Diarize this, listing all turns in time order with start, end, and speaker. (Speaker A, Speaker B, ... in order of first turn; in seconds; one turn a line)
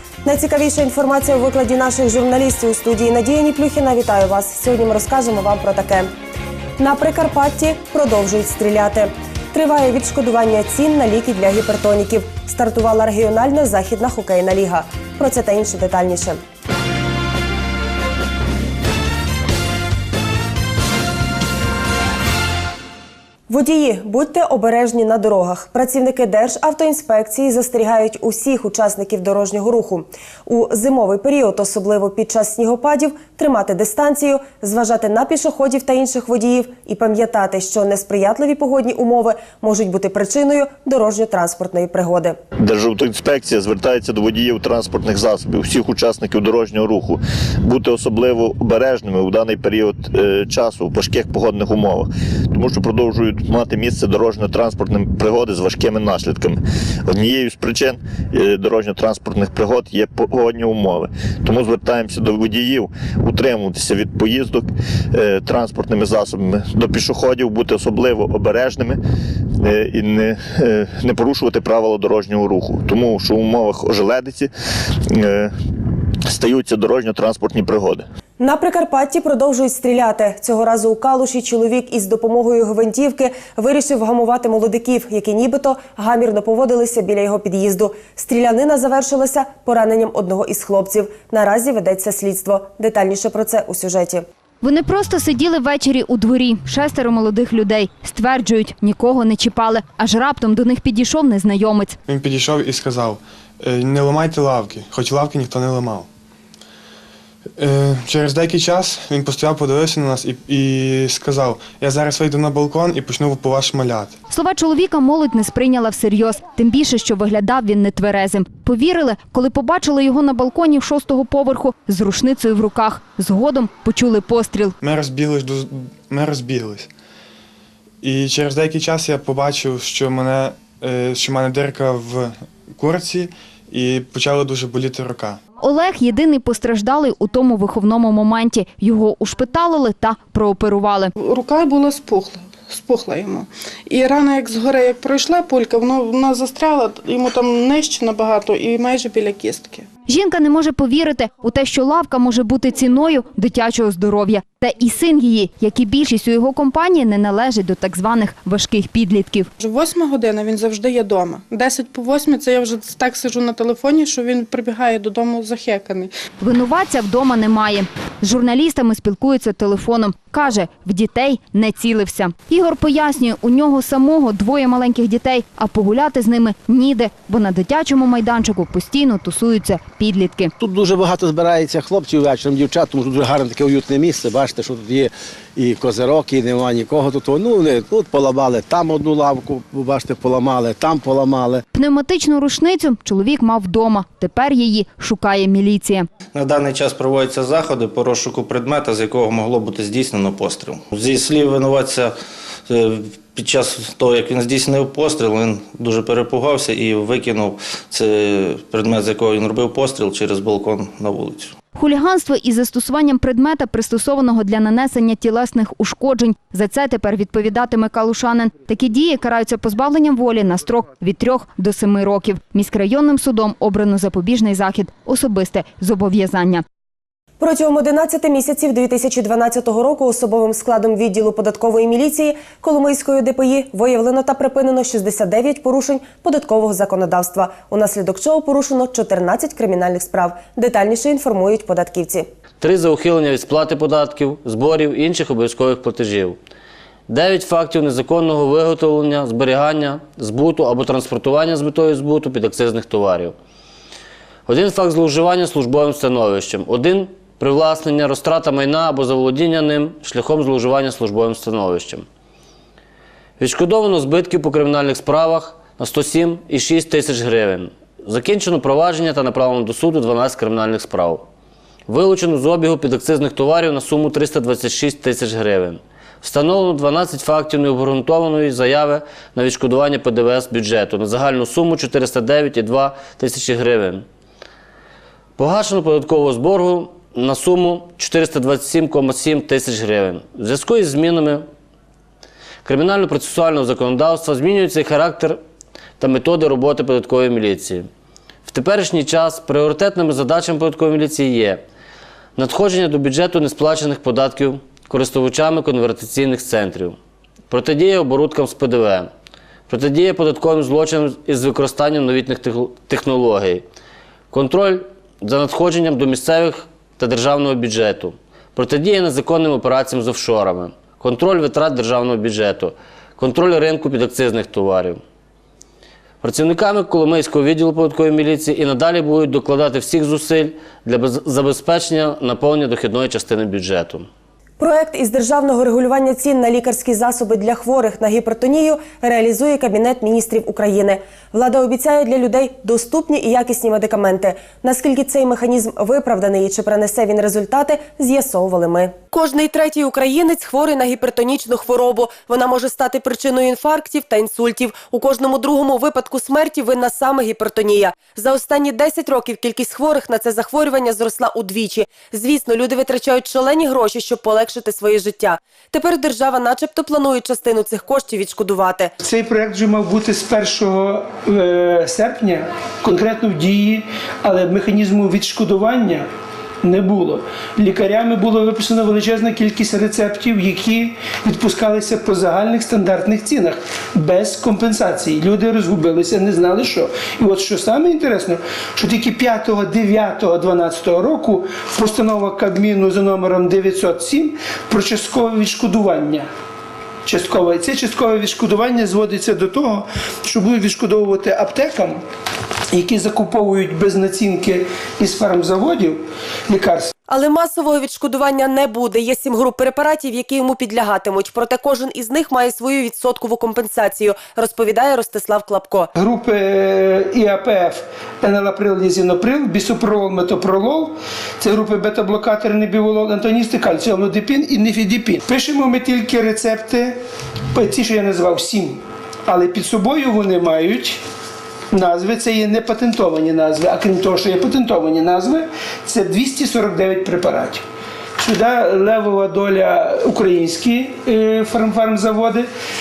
Speaker A: 0.2-6.1
Speaker A: 6.8-16.4
Speaker A: 23.5-42.4
Speaker B: 42.6-69.0
Speaker B: 69.6-74.5
Speaker B: 75.1-75.5
Speaker B: 76.3-78.0
Speaker A: 78.4-94.2
Speaker C: 94.6-102.0
Speaker D: 102.1-106.1
Speaker D: 107.6-114.2
Speaker C: 114.3-124.8
Speaker D: 124.8-126.9
Speaker D: 128.0-135.4
Speaker C: 135.6-141.1
Speaker E: 141.2-149.9
Speaker C: 150.1-159.5
Speaker E: 159.6-166.1
Speaker C: 166.4-180.5
Speaker F: 180.6-191.6
Speaker C: 191.7-196.1
Speaker G: 196.3-202.2
Speaker G: 202.7-211.5
Speaker C: 211.7-226.6
Speaker A: 227.4-242.2
Speaker H: 242.6-246.4
Speaker H: 247.1-253.3
Speaker H: 254.5-262.1
Speaker H: 263.4-271.2
Speaker H: 271.9-284.0
Speaker H: 285.4-291.5
Speaker H: 292.6-295.4
Speaker H: 296.0-297.9
Speaker H: 298.5-301.6
Speaker H: 302.4-307.0
Speaker H: 307.5-309.1
Speaker H: 309.7-313.6
Speaker H: 314.3-325.0
Speaker H: 326.2-334.1
Speaker A: 334.6-368.9
Speaker I: 369.0-376.1
Speaker I: 376.6-396.3
Speaker I: 397.0-402.0
Speaker I: 402.7-406.9
Speaker A: 407.1-415.9
Speaker I: 416.0-427.0
Speaker I: 427.5-431.0
Speaker I: 431.7-437.6
Speaker I: 438.2-442.5